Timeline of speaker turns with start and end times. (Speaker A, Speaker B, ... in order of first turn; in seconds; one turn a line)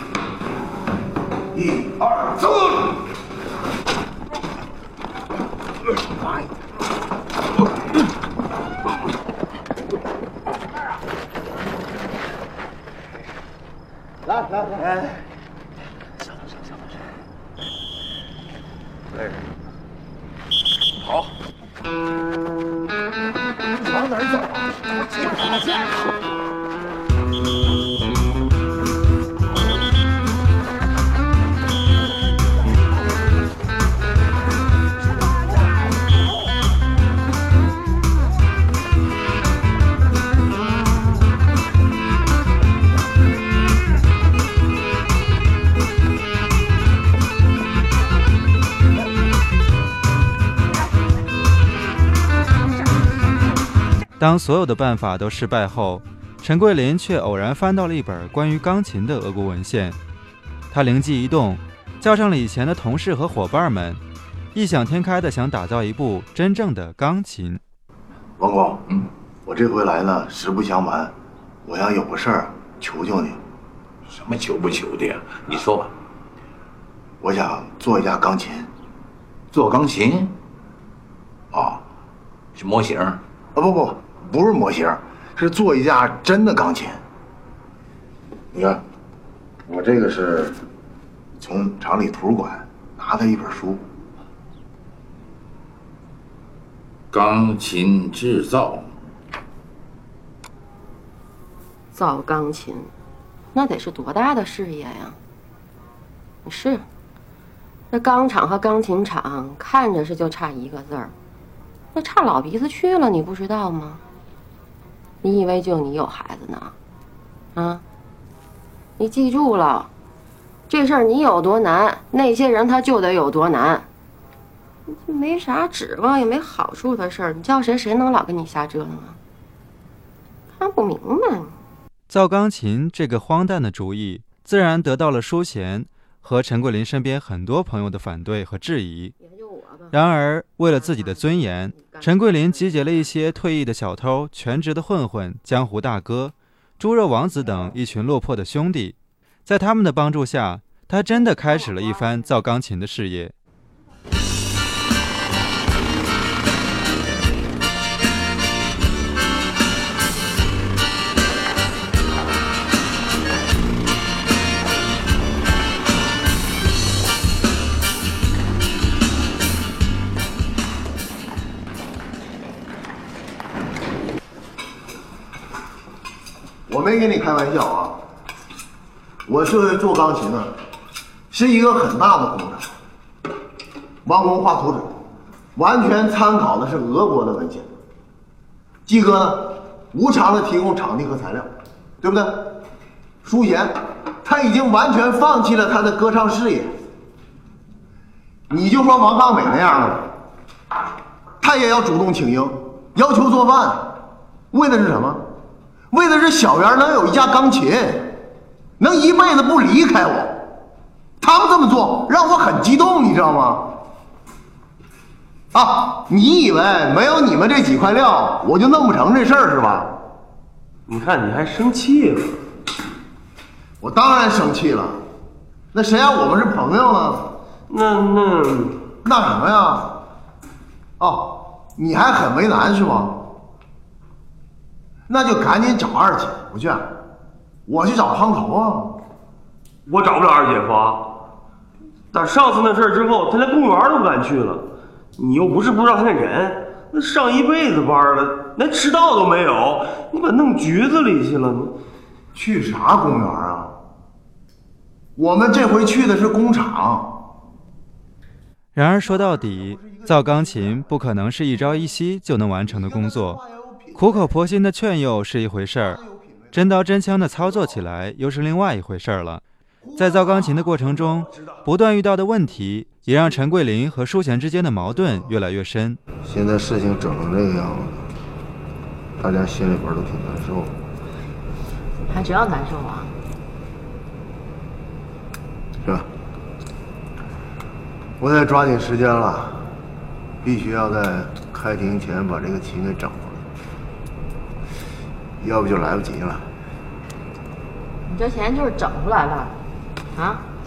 Speaker A: 1.5-3.0
Speaker B: 54.2-60.0
Speaker B: 60.7-64.0
Speaker B: 64.5-67.6
Speaker A: 68.4-68.8
Speaker A: 69.5-71.1
Speaker A: 71.7-73.4
Speaker C: 74.2-75.9
Speaker A: 77.2-78.7
Speaker C: 79.5-80.3
Speaker C: 82.6-83.2
Speaker A: 83.5-87.0
Speaker A: 89.7-90.5
Speaker A: 91.4-93.8
Speaker C: 97.1-98.9
Speaker D: 101.9-102.9
Speaker D: 103.5-105.2
Speaker D: 106.5-106.8
Speaker D: 107.9-111.1
Speaker D: 112.0-114.0
Speaker D: 115.2-116.7
Speaker D: 117.6-117.8
Speaker D: 119.0-119.9
Speaker D: 120.7-123.9
Speaker D: 124.9-129.2
Speaker D: 130.6-131.5
Speaker B: 132.1-139.1
Speaker D: 139.2-140.0
Speaker B: 139.9-153.3
Speaker D: 140.6-143.2
Speaker D: 151.3-152.0
Speaker A: 176.7-178.0
Speaker A: 179.3-180.5
Speaker A: 181.3-182.6
Speaker A: 184.1-184.9
Speaker A: 185.6-187.7
Speaker A: 188.9-191.5
Speaker A: 192.0-192.6
Speaker A: 193.2-196.7
Speaker A: 198.5-200.1
Speaker A: 201.4-203.9
Speaker A: 204.5-205.2
Speaker A: 205.9-208.2
Speaker A: 208.8-210.4
Speaker A: 211.2-213.7
Speaker A: 215.5-219.9
Speaker E: 220.9-222.3
Speaker A: 223.8-225.0
Speaker A: 225.7-227.3
Speaker E: 227.7-228.8
Speaker A: 229.0-229.9
Speaker A: 231.0-233.3
Speaker A: 235.1-236.9
Speaker A: 237.7-238.9
Speaker E: 239.9-241.1
Speaker E: 242.1-244.7
Speaker E: 245.2-251.7
Speaker A: 252.3-253.7
Speaker A: 255.2-257.1
Speaker B: 258.8-263.4
Speaker A: 259.8-260.2
Speaker A: 262.7-264.1
Speaker B: 263.9-266.0
Speaker B: 266.5-269.4
Speaker B: 270.0-276.0
Speaker A: 276.2-278.0
Speaker A: 279.2-280.7
Speaker D: 282.1-283.1
Speaker A: 288.2-289.7
Speaker A: 290.4-293.4
Speaker A: 295.4-296.5
Speaker D: 298.1-299.6
Speaker D: 300.1-300.4